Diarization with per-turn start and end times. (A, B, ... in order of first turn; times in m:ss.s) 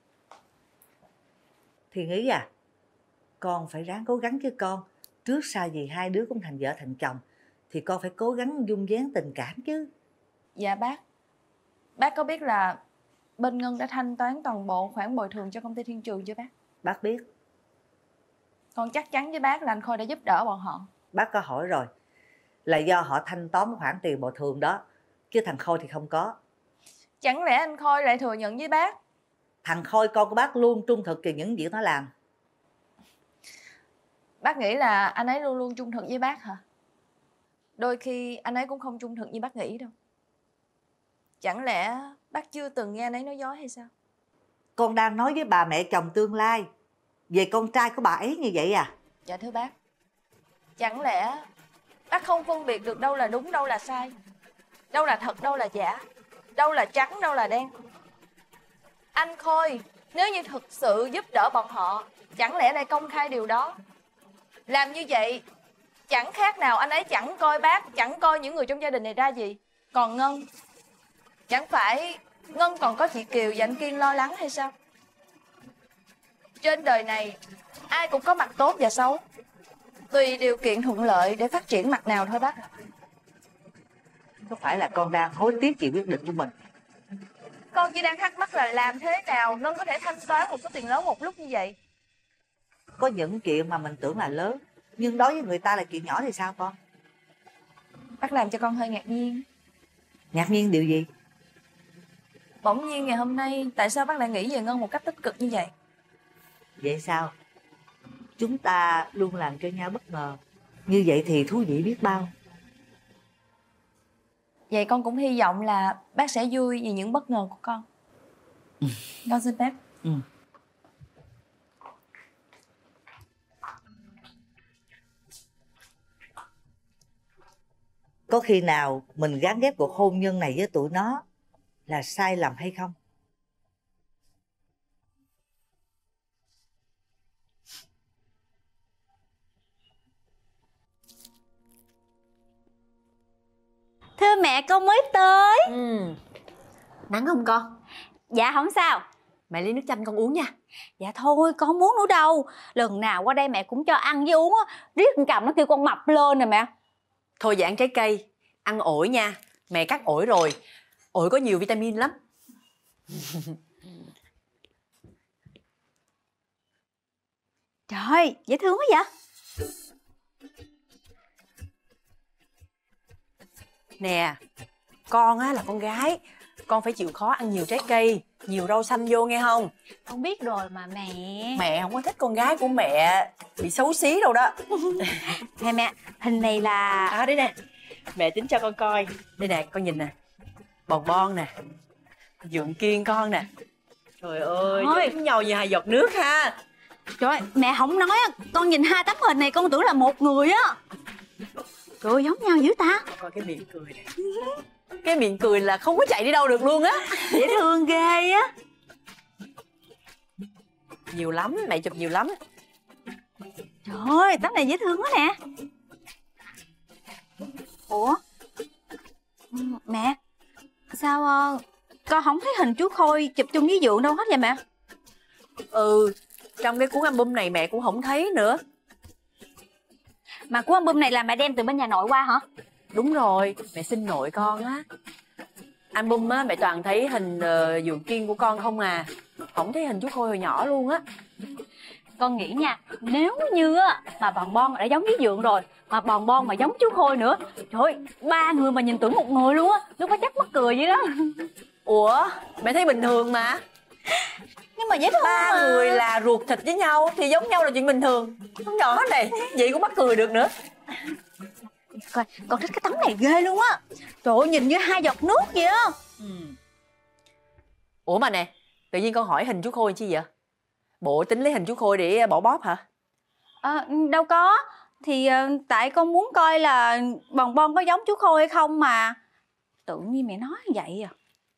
0:01.9-0:02.5 A
0:03.4-0:09.9 A
0:10.6-0:11.0 B
0:12.0-0:12.8 B
0:13.4-0:16.5 B
0:16.8-0:17.2 A
0:18.7-0:20.9 B
0:21.1-0:21.9 A
0:22.6-0:26.4 A
0:27.2-0:29.0 B
0:29.6-0:32.1 A
0:34.4-0:36.6 B
0:37.8-0:39.9 B
0:41.4-0:43.9 B
0:44.8-0:46.7 A
0:47.3-0:48.9 A
0:49.2-0:49.7 B
0:50.8-0:51.4 B
0:52.1-0:54.1 B
0:54.9-0:56.0 B
0:56.5-0:57.7 B
0:59.1-1:03.8 B
1:04.7-1:05.4 B
1:06.1-1:10.4 B
1:11.5-1:14.7 B
1:16.6-1:17.4 B
1:17.9-1:19.2 B
1:20.1-1:22.6 B
1:24.4-1:26.5 A
1:27.7-1:31.8 B
1:33.0-1:36.8 A
1:38.2-1:39.4 B
1:40.3-1:41.1 A
1:42.6-1:45.7 B
1:46.8-1:47.3 A
1:48.4-1:52.3 A
1:54.7-1:57.8 B
1:59.2-1:59.8 B
2:08.3-2:11.2 A
2:11.9-2:12.9 A
2:24.2-2:25.7 C
2:25.7-2:26.2 D
2:27.1-2:27.7 D
2:28.3-2:29.0 C
2:29.5-2:30.5 D
2:31.0-2:36.7 C
2:37.4-2:40.6 D
2:41.1-2:42.2 D
2:47.9-2:49.1 C
2:54.0-2:54.4 D
2:55.1-2:59.7 D
3:00.1-3:01.6 C
3:01.6-3:04.6 D
3:05.4-3:07.2 C
3:07.1-3:07.5 D
3:08.1-3:10.1 D
3:10.9-3:11.5 D
3:12.4-3:13.5 D
3:14.2-3:16.6 D
3:14.7-3:15.1 C
3:17.2-3:20.8 C
3:22.0-3:23.0 C
3:23.1-3:24.1 D
3:25.0-3:27.4 D
3:27.2-3:28.5 C
3:31.1-3:32.4 D
3:33.8-3:35.4 C
3:37.9-3:38.2 C
3:39.5-3:40.2 C
3:40.9-3:44.6 C
3:45.7-3:48.6 D
3:50.5-3:52.4 C
3:52.9-3:54.8 D
3:55.9-4:01.0 D
4:02.2-4:11.4 C
4:11.8-4:13.6 D
4:14.8-4:16.0 C
4:15.2-4:20.5 D
4:21.9-4:26.0 C
4:26.2-4:26.5 D
4:28.0-4:30.3 D
4:31.0-4:32.8 D
4:33.6-4:39.2 C
4:39.8-4:41.1 C